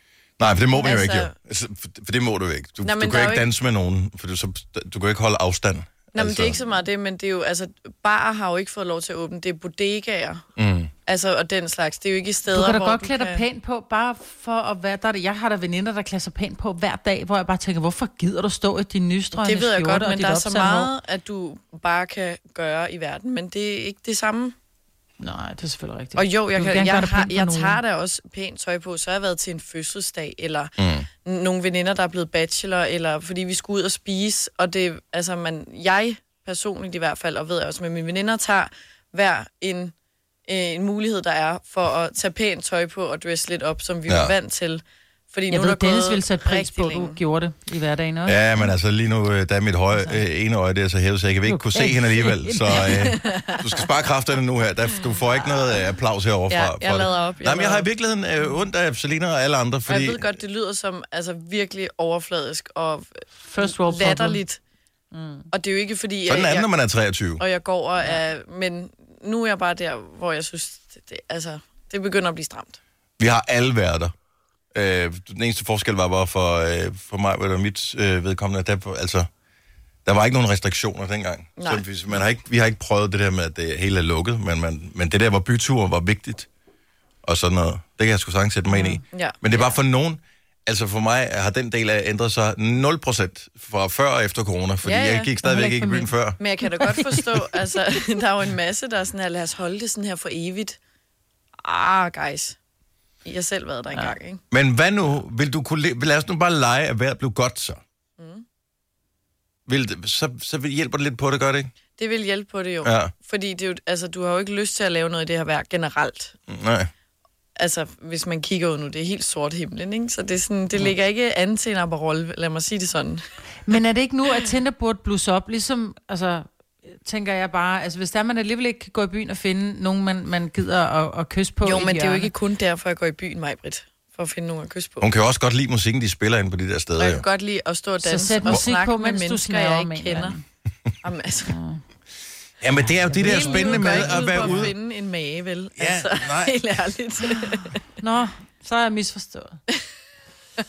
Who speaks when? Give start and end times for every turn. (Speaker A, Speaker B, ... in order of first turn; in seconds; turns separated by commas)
Speaker A: 0.4-6.6, Speaker B: 0.7-1.3, Speaker B: 2.8-3.5, Speaker B: 6.1-10.4, Speaker A: 10.6-10.9, Speaker B: 11.1-13.4, Speaker C: 12.5-20.9, Speaker B: 19.4-24.5, Speaker C: 25.2-27.8, Speaker B: 26.1-30.7, Speaker A: 30.8-31.1, Speaker B: 31.2-39.9, Speaker B: 40.5-47.2, Speaker A: 44.1-44.3, Speaker C: 45.5-48.4, Speaker A: 48.2-60.3, Speaker C: 51.5-52.9, Speaker B: 52.9-53.6, Speaker B: 56.5-57.9, Speaker B: 59.9-64.6, Speaker C: 63.4-64.4, Speaker C: 65.1-65.5, Speaker B: 65.5-66.7, Speaker A: 66.3-67.4, Speaker B: 67.4-72.8, Speaker A: 73.2-74.1, Speaker A: 74.7-79.3, Speaker A: 80.0-86.5, Speaker B: 81.6-81.8, Speaker A: 87.2-96.4, Speaker C: 88.7-89.0, Speaker B: 89.1-89.8, Speaker B: 94.8-95.3, Speaker C: 95.4-96.1, Speaker B: 96.4-100.8, Speaker C: 96.6-97.2, Speaker B: 101.6-102.6, Speaker B: 103.2-104.4, Speaker A: 104.5-107.8, Speaker B: 108.2-108.4, Speaker A: 109.7-111.7, Speaker B: 112.0-116.3, Speaker A: 112.8-113.1, Speaker A: 116.5-116.9, Speaker B: 117.6-123.2, Speaker C: 123.7-126.5, Speaker C: 127.0-132.3, Speaker B: 131.6-135.1, Speaker A: 135.0-137.2, Speaker B: 137.0-140.4, Speaker C: 138.0-140.4, Speaker B: 141.0-141.5, Speaker C: 141.5-141.8, Speaker A: 142.6-144.7, Speaker C: 143.1-144.6, Speaker B: 143.2-147.8, Speaker A: 145.8-146.6, Speaker C: 147.2-149.6